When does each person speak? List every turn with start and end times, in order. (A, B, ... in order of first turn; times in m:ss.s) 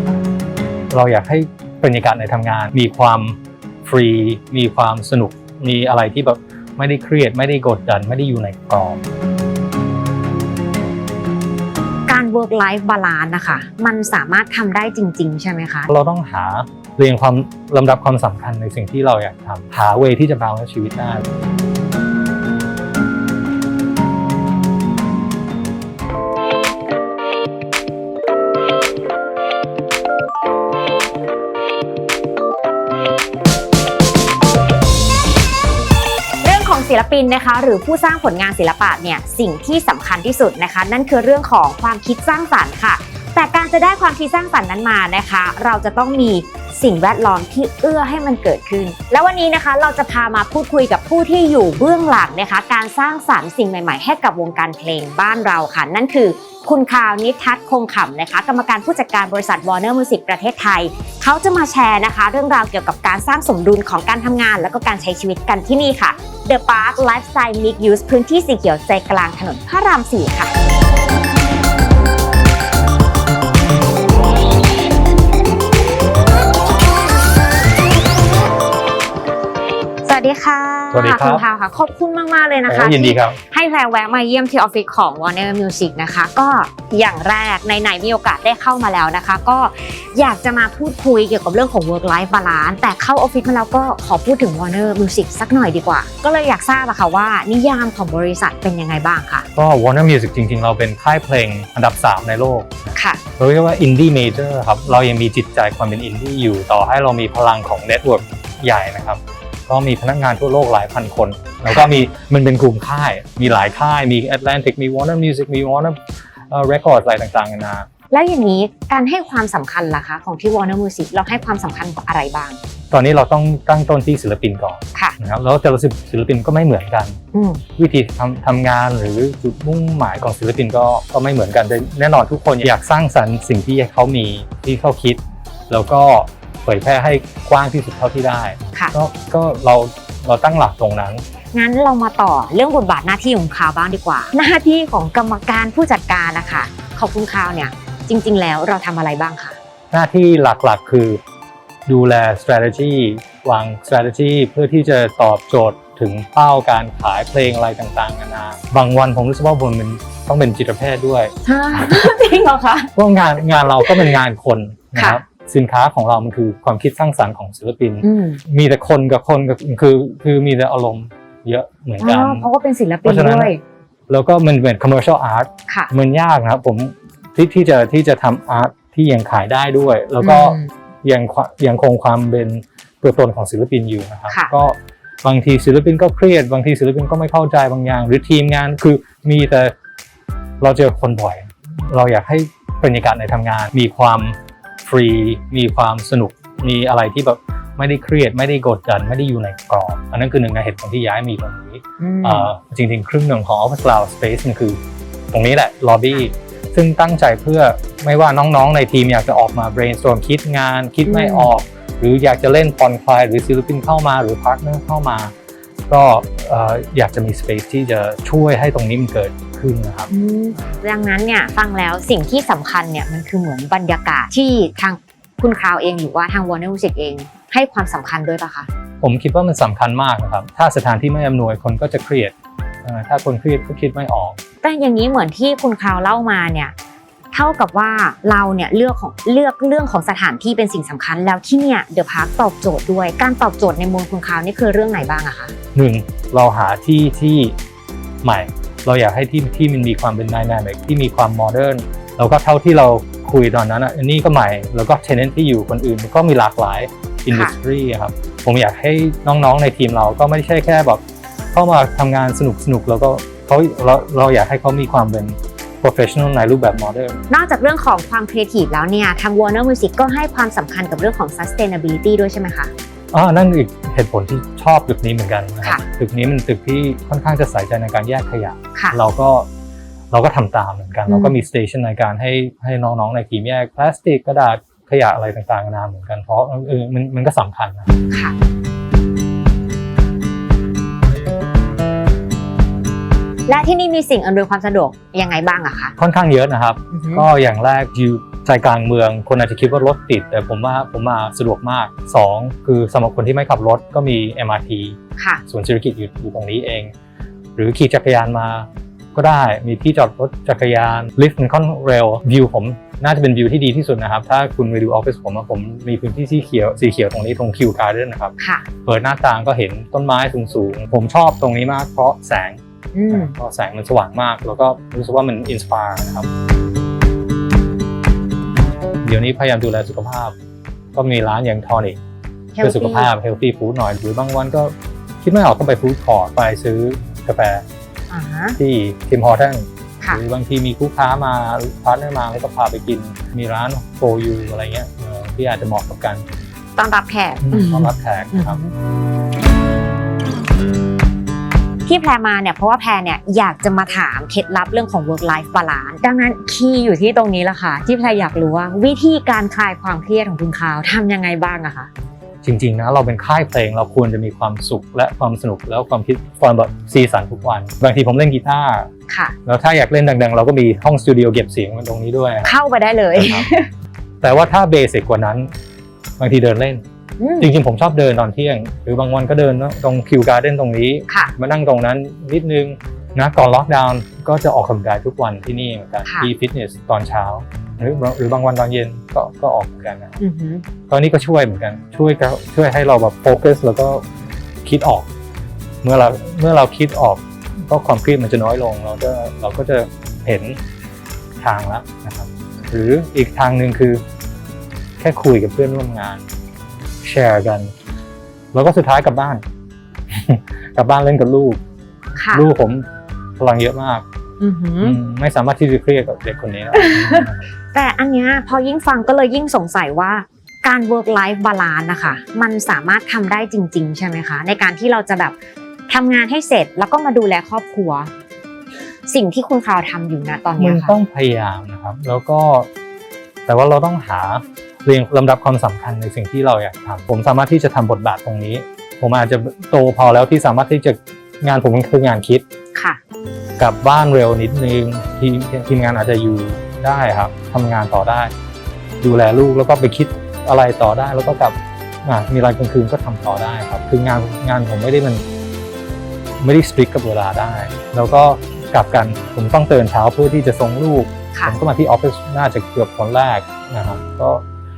0:00.9-0:09.0 A
0:12.1-0:15.9 B
0:15.9-0:21.2 A
0:36.4-1:10.5 B
1:20.0-1:39.4 B
1:20.9-1:21.4 A
1:22.7-1:23.4 A
1:39.5-1:42.7 A
1:43.0-1:43.2 B
1:43.4-1:56.0 A
1:56.5-1:57.9 A
1:58.1-2:02.6 B
2:02.9-2:07.2 A
2:07.3-2:07.6 B
2:07.8-2:15.2 A
2:15.7-2:21.2 A
2:21.5-2:29.6 B
2:29.9-2:31.2 A
2:31.9-2:42.1 A
2:41.4-2:42.9 B
2:42.9-2:52.5 A
2:43.8-2:44.2 B
2:44.9-2:45.2 B
2:48.0-2:48.4 B
2:52.0-2:53.6 B
2:53.0-2:53.5 A
2:54.1-3:09.7 A
3:00.2-3:00.7 B
3:10.6-3:24.8 A
3:22.0-3:22.5 B
3:25.3-3:35.3 A
3:31.1-3:31.5 B
3:35.9-3:40.1 A
3:40.1-3:48.7 B
3:49.0-3:54.4 A
3:54.6-3:56.7 B
3:57.3-4:05.5 B
4:05.7-4:07.6 A
4:08.2-4:21.0 A
4:21.5-4:27.2 A
4:27.3-4:32.7 B
4:33.1-4:39.5 A
4:40.1-4:47.9 A
4:41.1-4:41.4 B
4:53.5-4:55.9 B
4:56.0-5:06.9 A
4:56.9-4:57.2 B
5:05.2-5:05.4 B
5:07.6-5:26.3 A
5:18.4-5:18.7 B
5:22.9-5:23.3 B
5:29.0-5:30.3 A
5:30.9-5:32.0 A
5:32.5-5:33.1 B
5:32.6-5:37.6 A
5:38.1-5:38.6 B
5:38.6-5:46.2 A
5:46.8-5:48.7 B
5:47.4-5:48.6 A
5:51.9-6:01.9 B
6:02.4-6:08.9 A
6:09.1-6:09.4 B
6:09.4-6:12.5 A
6:12.4-6:13.7 B
6:13.1-6:13.5 A
6:14.2-6:15.5 A
6:16.2-6:16.8 A
6:17.2-6:17.5 B
6:17.4-6:30.2 A
6:21.1-6:21.3 B
6:26.0-6:26.3 B
6:30.2-6:30.6 B
6:30.9-6:34.0 A
6:34.6-6:35.1 A
6:35.8-6:40.6 A
6:41.4-6:44.0 A
6:45.0-6:46.2 A
6:47.0-6:47.7 A
6:48.5-6:49.4 A
6:50.1-6:51.6 A
6:52.2-6:52.4 B
6:52.3-6:52.8 A
6:53.4-6:54.0 A
6:54.4-6:55.0 B
6:54.8-6:57.4 A
6:56.7-7:05.4 B
7:05.9-7:08.1 B
7:09.1-7:11.0 B
7:10.6-7:12.7 A
7:13.5-7:22.4 A
7:22.7-7:23.0 B
7:23.6-7:28.3 A
7:29.0-7:35.2 A
7:36.4-7:44.4 A